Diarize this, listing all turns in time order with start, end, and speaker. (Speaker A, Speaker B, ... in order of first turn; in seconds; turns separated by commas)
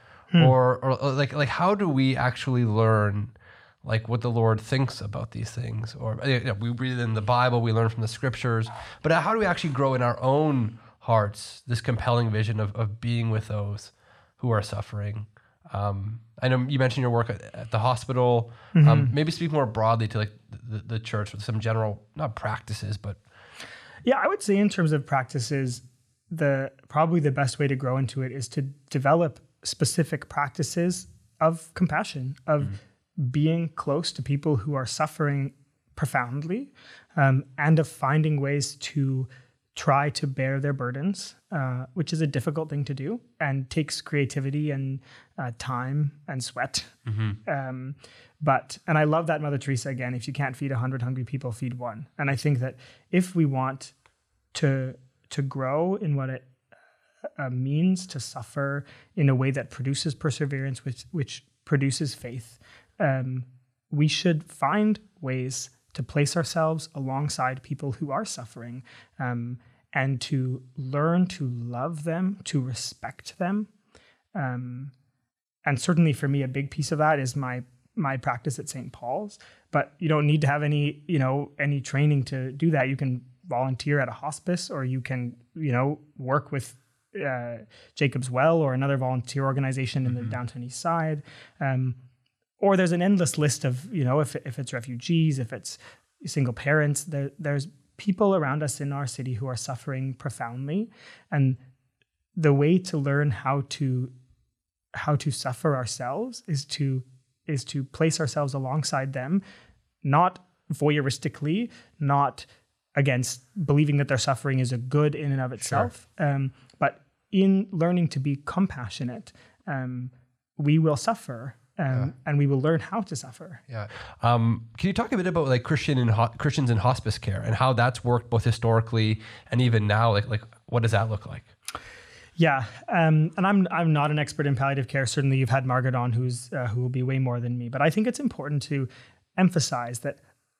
Speaker A: 0.4-23.2, Speaker B: 18.7-19.1, Speaker B: 24.0-53.9, Speaker A: 47.1-47.4, Speaker B: 54.5-56.5, Speaker B: 57.4-73.7, Speaker B: 74.3-74.9, Speaker B: 75.6-92.0, Speaker B: 92.6-101.6, Speaker B: 102.3-104.1, Speaker B: 104.9-109.4, Speaker B: 110.0-123.6, Speaker A: 115.6-115.9, Speaker A: 123.7-131.5, Speaker B: 132.4-140.2